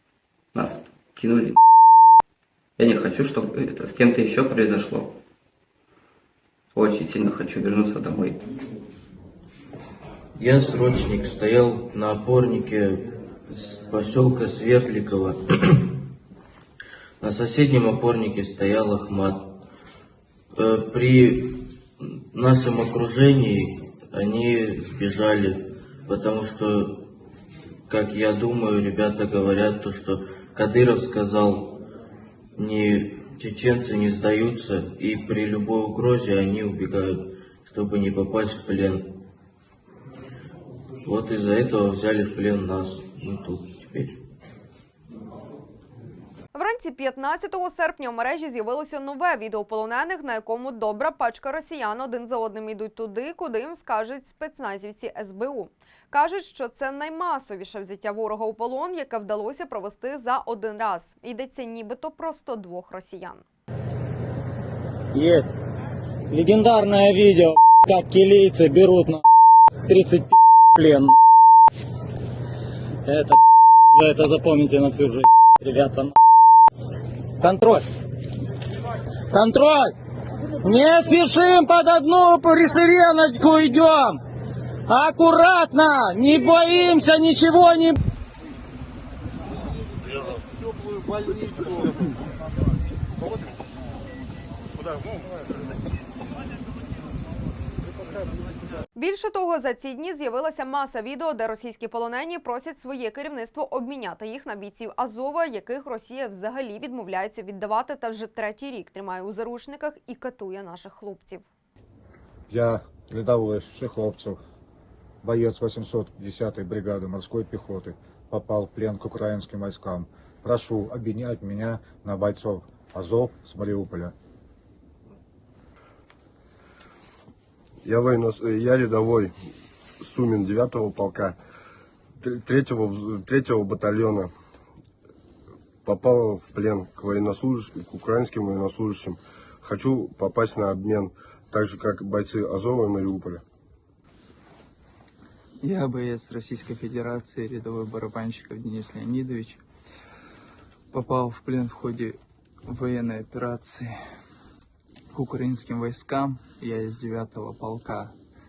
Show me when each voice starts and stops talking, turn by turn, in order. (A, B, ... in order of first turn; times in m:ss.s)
0:00.5-0:01.6 A
0:02.8-0:05.1 A
0:06.7-0:08.4 A
0:10.4-0:15.9 B
0:17.2-0:19.6 B
0:20.5-0:27.1 B
0:27.9-0:31.8 B
0:32.6-0:39.2 B
0:41.0-0:44.2 B
0:46.5-1:03.4 C
1:05.1-1:05.5 D
1:06.3-1:09.2 D
1:09.9-1:11.1 D
1:13.0-1:13.4 D
1:13.9-1:16.1 D
1:17.4-1:17.8 D
1:19.3-1:19.9 D
1:20.6-1:24.2 D
1:24.9-1:28.0 D
1:39.0-1:51.4 C
1:52.5-1:54.4 E
1:55.2-2:04.1 E
2:07.8-2:09.5 F
2:10.0-2:11.4 F
2:12.2-2:14.3 F
2:15.8-2:23.4 F
2:25.6-2:29.6 G
2:30.9-2:34.0 G
2:35.1-2:38.1 G